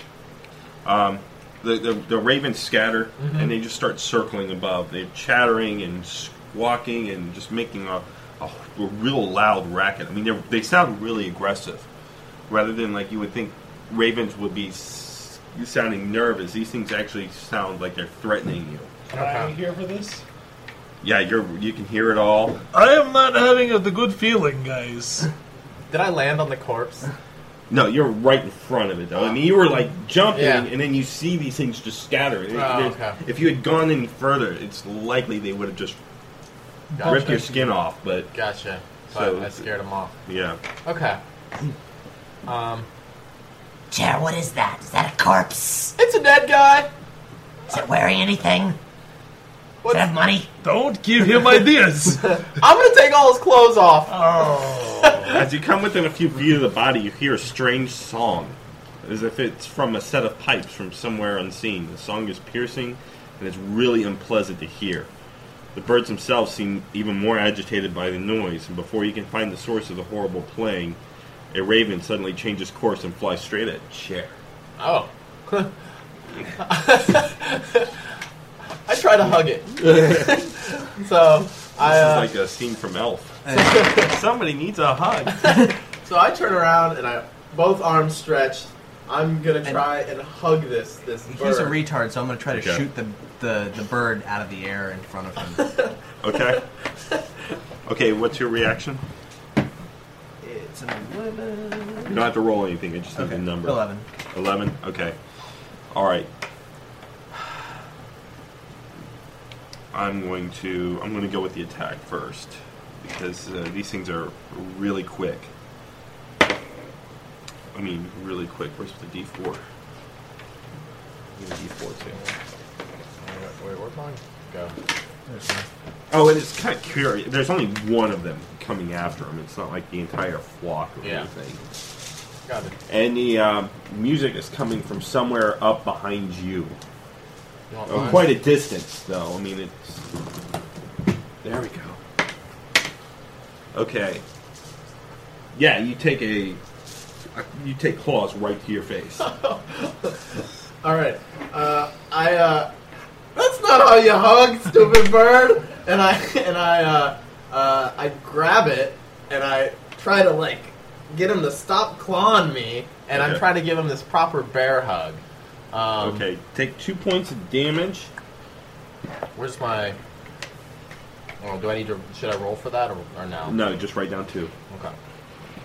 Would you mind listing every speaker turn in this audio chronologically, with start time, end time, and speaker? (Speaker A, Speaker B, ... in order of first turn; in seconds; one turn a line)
Speaker A: 0.8-11.9
Speaker B: 3.2-3.5
Speaker A: 12.5-18.9
Speaker B: 19.1-19.5
Speaker C: 19.1-20.2
Speaker A: 21.0-22.6
Speaker C: 22.7-25.3
Speaker B: 25.9-27.1
Speaker A: 27.7-36.0
Speaker B: 30.3-30.7
Speaker B: 32.5-33.2
Speaker C: 36.9-37.7
Speaker B: 37.0-37.3
Speaker A: 37.0-38.3
Speaker B: 38.3-40.1
Speaker A: 39.1-39.7
Speaker A: 40.2-40.6
Speaker B: 40.8-41.2
Speaker B: 42.5-42.9
Speaker D: 43.9-45.9
Speaker B: 46.0-46.9
Speaker D: 47.7-48.8
Speaker B: 49.8-50.1
Speaker D: 49.9-50.5
Speaker C: 50.6-52.4
Speaker B: 52.2-55.3
Speaker C: 54.1-55.3
Speaker A: 55.3-65.1
Speaker A: 65.7-71.0
Speaker A: 71.5-74.3
Speaker B: 74.8-75.7
Speaker B: 76.6-77.9
Speaker B: 78.8-82.3
Speaker A: 81.8-85.6
Speaker B: 83.5-84.1
Speaker B: 85.4-91.8
Speaker E: 91.3-95.7
Speaker A: 92.5-92.8
Speaker B: 95.6-95.9
Speaker A: 96.2-96.6
Speaker A: 97.8-99.0
Speaker E: 100.4-102.2
Speaker A: 102.0-105.2
Speaker E: 103.2-104.1
Speaker A: 105.9-106.3
Speaker A: 109.9-115.5
Speaker A: 117.7-119.6
Speaker A: 121.3-122.2
Speaker B: 123.2-124.7
Speaker E: 125.3-125.7
Speaker A: 126.1-131.6
Speaker B: 131.0-131.3
Speaker B: 132.4-132.7
Speaker A: 132.9-136.8
Speaker B: 137.7-138.2
Speaker A: 137.9-140.0
Speaker A: 141.4-142.0
Speaker A: 143.7-144.2
Speaker A: 145.5-146.6
Speaker A: 147.3-149.2
Speaker B: 149.2-150.3
Speaker B: 150.8-152.7
Speaker B: 153.3-166.2
Speaker A: 163.1-163.4
Speaker A: 166.0-168.1
Speaker B: 169.3-170.0
Speaker B: 171.4-173.6
Speaker A: 173.5-174.5
Speaker B: 174.7-174.9